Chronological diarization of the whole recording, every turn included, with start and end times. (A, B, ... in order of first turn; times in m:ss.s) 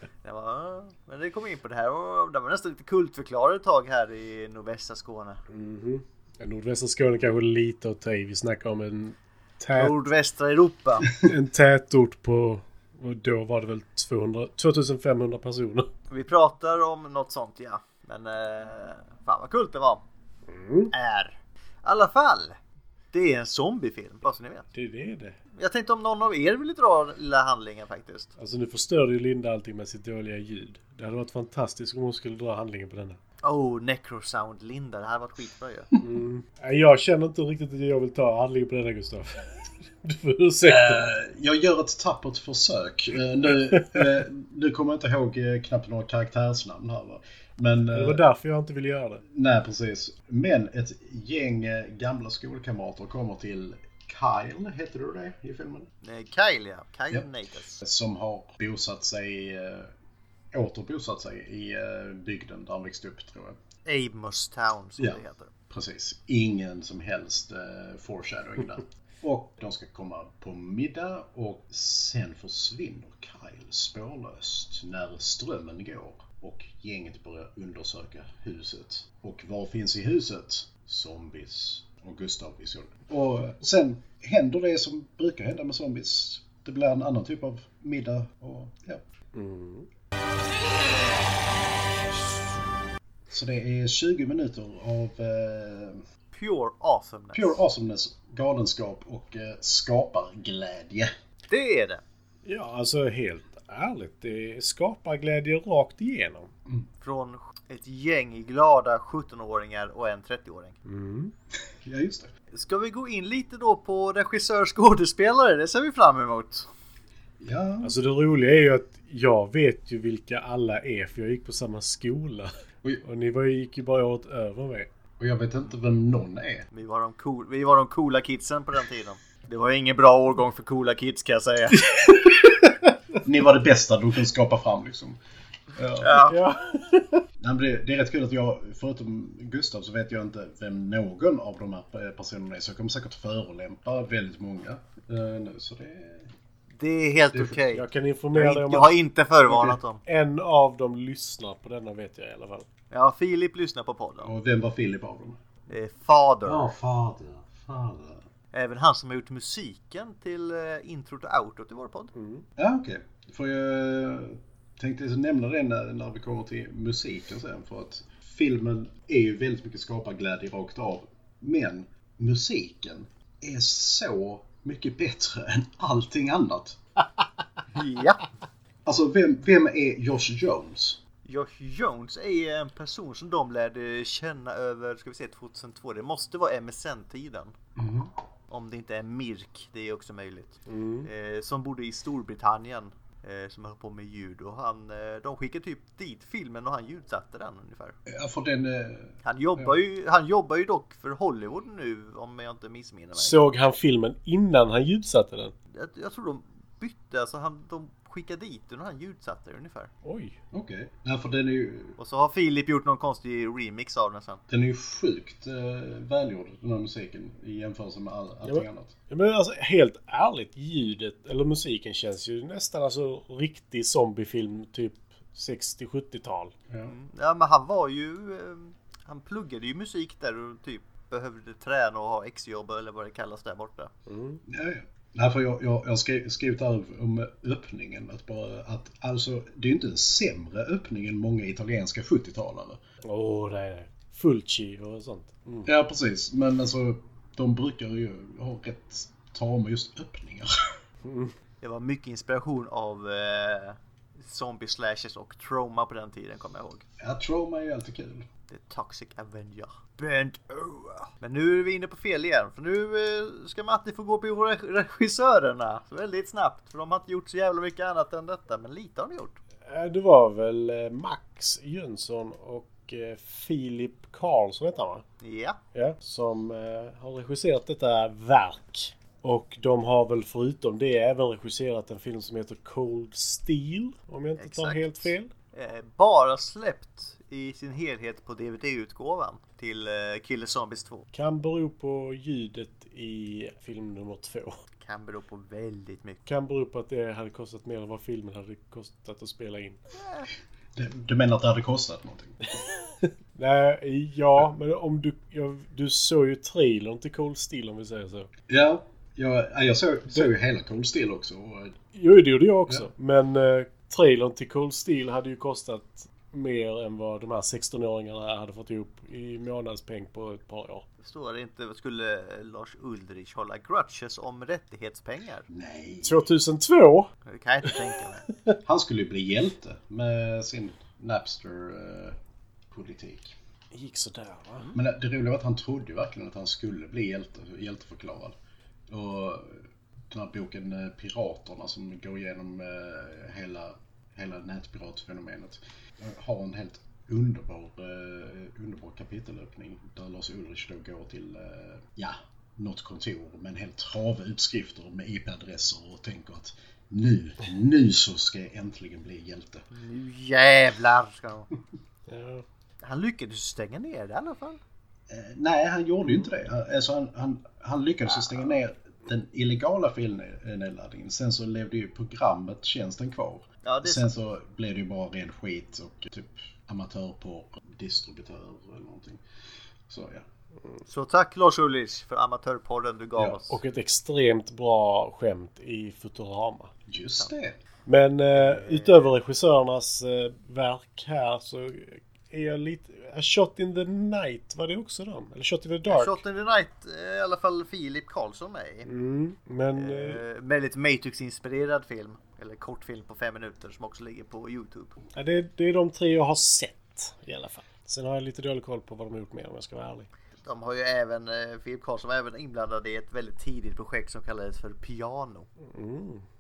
0:00.2-0:05.4 A
0:05.5-0:10.0 B
0:09.8-0:11.2 A
0:11.2-0:15.9 B
0:16.1-0:20.0 A
0:20.5-0:20.9 B
0:20.9-0:22.6 A
0:23.1-0:24.7 A
0:24.7-0:25.4 B
0:25.6-0:28.3 A
0:28.4-0:33.2 B
0:33.4-0:35.9 A
0:36.0-0:41.1 B
0:40.6-0:48.2 C
0:43.7-0:44.2 B
0:47.9-0:49.2 B
0:49.3-0:55.9 C
0:56.0-0:57.8 A
0:57.1-0:59.9 C
1:00.5-1:03.6 C
1:03.8-1:05.5 A
1:05.0-1:29.0 C
1:29.3-1:29.9 B
1:33.3-1:36.0 C
1:36.3-1:37.6 A
1:37.3-1:41.1 C
1:41.5-1:42.0 A
1:42.4-1:46.5 B
1:47.0-1:50.8 A
1:50.8-1:51.3 B
1:51.8-1:52.3 C
1:52.5-1:56.7 A
1:57.4-1:58.0 C
1:57.8-2:02.5 B
2:03.0-2:04.9 B
2:05.2-2:06.7 C
2:06.7-2:11.8 A
2:13.2-2:15.2 C
2:15.8-2:16.2 C
2:16.0-2:16.4 A
2:16.2-2:17.2 B
2:17.4-2:26.3 C
2:26.8-2:30.0 A
2:27.3-2:27.6 C
2:27.7-2:29.0 B
2:29.5-2:29.8 C
2:30.0-2:32.7 B
2:32.9-2:34.3 A
2:34.2-2:35.4 C
2:35.7-2:36.7 A
2:36.4-2:38.2 C
2:38.5-2:42.1 A
2:42.1-2:42.4 B
2:42.6-2:56.8 C
2:57.7-2:58.2 A
2:58.9-3:01.0 C
3:01.3-3:07.5 A
3:07.8-3:08.1 C
3:08.5-3:18.0 A
3:10.7-3:11.1 B
3:18.1-3:19.7 C
3:19.2-3:23.4 A
3:23.2-3:25.5 B
3:25.7-3:29.9 A
3:30.0-3:30.4 B
3:30.5-3:32.0 C
3:32.0-3:34.4 A
3:34.5-3:38.9 C
3:38.4-3:46.5 B
3:46.9-3:53.9 A
3:54.1-3:54.4 B
3:54.5-4:02.8 C
4:03.0-4:05.7 B
4:05.6-4:10.5 C
4:11.0-4:11.3 B
4:11.6-4:16.8 A
4:17.0-4:18.3 C
4:18.5-4:29.4 A
4:29.7-4:35.0 B
4:35.2-4:35.6 A
4:35.7-4:45.3 B
4:44.4-4:51.1 A
4:51.1-4:54.6 B
4:54.8-4:56.2 A
4:56.3-4:59.8 B
5:00.0-5:00.3 A
5:00.8-5:02.5 C
5:03.0-5:08.3 B
5:08.5-5:11.8 C
5:11.9-5:20.8 B
5:21.0-5:25.5 A
5:25.5-5:26.2 C
5:26.0-5:27.1 B
5:27.3-5:28.3 A
5:28.6-5:32.2 C
5:32.7-5:33.4 C
5:33.7-5:34.7 B
5:34.7-5:38.4 C
5:38.9-5:59.6 C
5:59.7-6:01.5 A
6:02.1-6:02.4 B
6:02.8-6:04.6 A
6:05.1-6:19.2 C
6:13.6-6:14.1 A
6:19.9-6:20.3 C
6:20.9-6:23.6 A
6:23.5-6:26.7 B
6:26.9-6:27.6 C
6:27.9-6:36.2 B
6:28.4-6:28.9 A
6:35.9-6:38.9 A
6:38.8-6:40.2 B
6:39.8-6:45.0 A
6:45.2-6:50.1 B
6:50.4-6:55.5 A
6:55.7-6:56.2 B